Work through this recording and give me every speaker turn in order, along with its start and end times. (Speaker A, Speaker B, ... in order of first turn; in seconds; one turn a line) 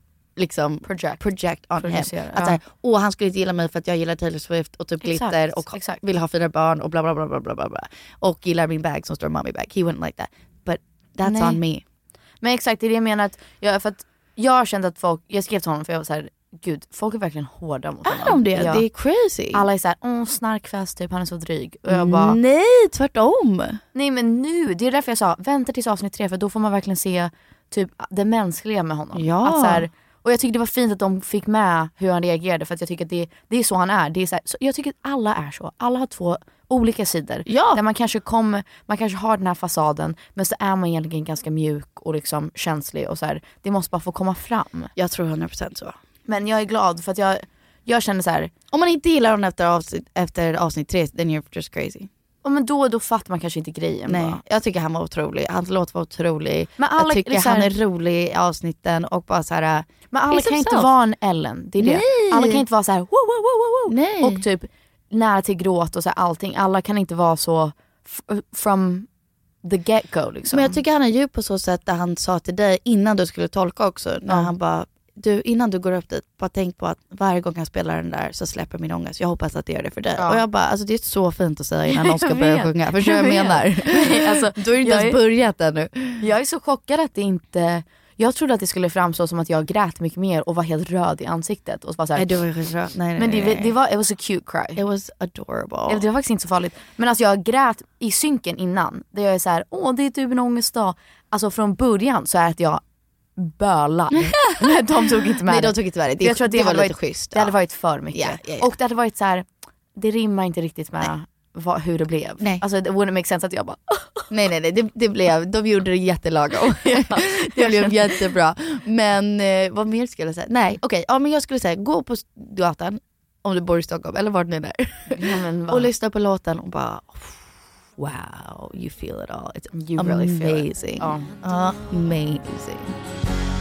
Speaker A: 0.4-11.8
Speaker B: 0.8-1.2
Speaker B: 1.8-2.6
Speaker B: 5.0-6.0
Speaker B: 11.2-11.6
Speaker B: 12.4-18.9
Speaker A: 18.0-19.6
Speaker B: 19.5-22.4
Speaker A: 21.9-23.8
Speaker B: 23.9-44.9
Speaker A: 29.1-29.9
Speaker A: 37.5-37.8
Speaker A: 45.0-46.0
Speaker B: 46.2-48.5
Speaker A: 48.7-52.1
Speaker B: 52.4-54.4
Speaker A: 54.1-60.9
Speaker B: 56.8-57.7
Speaker B: 60.1-69.1
Speaker A: 61.8-62.6
Speaker A: 63.9-64.4
Speaker B: 69.6-70.8
Speaker A: 70.5-86.2
Speaker B: 80.2-80.4
Speaker B: 81.9-85.2
Speaker B: 86.2-92.4
Speaker A: 92.1-93.7
Speaker B: 93.2-94.8
Speaker A: 94.7-96.0
Speaker B: 95.9-102.8
Speaker B: 103.4-114.2
Speaker A: 104.1-107.5
Speaker A: 108.1-108.7
Speaker A: 114.3-127.5
Speaker B: 116.8-118.1
Speaker B: 125.1-125.9
Speaker A: 128.0-132.9
Speaker B: 129.7-131.3